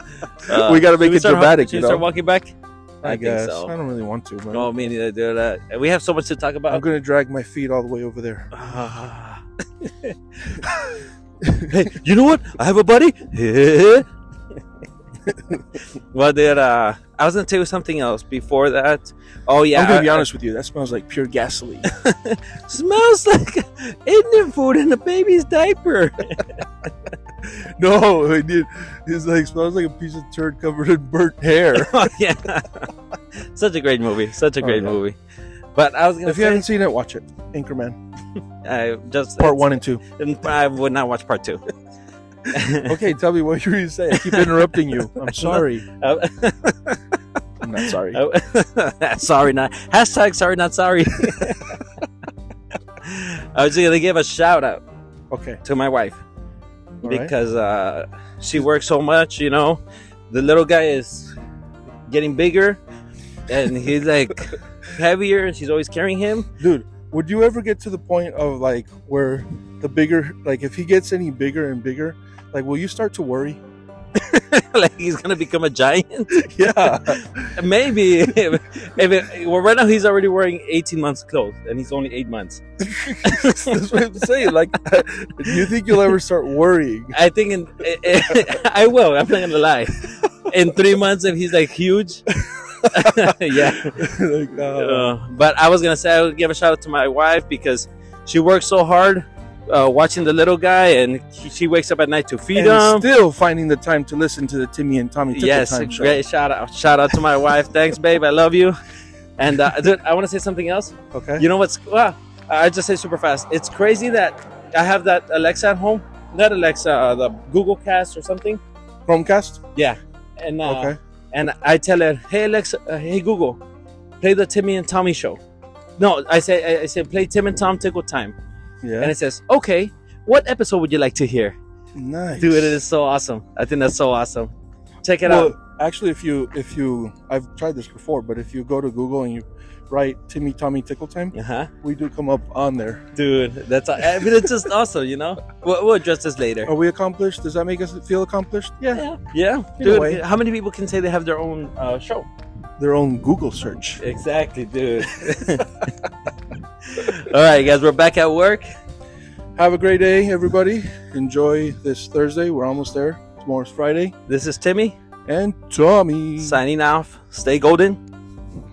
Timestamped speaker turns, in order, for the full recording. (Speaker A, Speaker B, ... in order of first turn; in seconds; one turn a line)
Speaker A: 0.3-3.7
Speaker B: 0.5-2.0
Speaker B: 3.0-4.7
Speaker A: 4.5-6.8
Speaker B: 6.7-8.5
Speaker A: 8.5-10.7
Speaker B: 11.4-11.7
Speaker A: 11.7-14.1
Speaker B: 15.3-15.6
Speaker A: 16.1-20.2
Speaker B: 19.7-21.9
Speaker A: 21.9-26.8
Speaker B: 27.4-32.1
Speaker A: 31.7-35.2
Speaker B: 34.6-35.0
Speaker A: 35.7-36.6
Speaker B: 36.2-38.0
Speaker A: 38.6-41.6
Speaker B: 39.4-40.0
Speaker A: 42.5-42.9
Speaker B: 42.9-45.8
Speaker A: 44.1-47.0
Speaker B: 47.6-48.2
Speaker A: 47.8-52.0
Speaker A: 53.0-54.8
Speaker B: 55.3-55.6
Speaker A: 55.6-56.2
Speaker B: 57.0-57.3
Speaker A: 57.0-61.3
Speaker A: 62.1-62.8
Speaker A: 63.5-66.5
Speaker B: 66.6-73.6
Speaker A: 74.1-82.6
Speaker B: 76.3-77.6
Speaker B: 82.8-87.2
Speaker A: 83.2-83.7
Speaker A: 87.1-92.2
Speaker B: 92.3-95.2
Speaker A: 92.9-94.0
Speaker A: 94.7-103.1
Speaker B: 102.5-106.2
Speaker A: 105.3-108.7
Speaker A: 109.4-118.6
Speaker B: 111.1-111.4
Speaker B: 119.1-119.6
Speaker A: 119.8-123.6
Speaker B: 120.6-121.0
Speaker A: 124.2-125.4
Speaker A: 126.0-128.3
Speaker B: 128.8-129.1
Speaker A: 129.0-131.6
Speaker B: 131.9-132.8
Speaker A: 132.3-134.5
Speaker A: 135.0-135.6
Speaker B: 135.2-143.0
Speaker A: 141.3-141.7
Speaker A: 143.1-146.7
Speaker B: 146.6-149.0
Speaker A: 148.9-152.3
Speaker B: 149.8-150.2
Speaker B: 152.8-154.0
Speaker A: 154.0-155.9
Speaker A: 156.9-158.7
Speaker B: 159.6-164.1
Speaker A: 164.3-164.9
Speaker B: 165.2-166.6
Speaker A: 166.4-168.0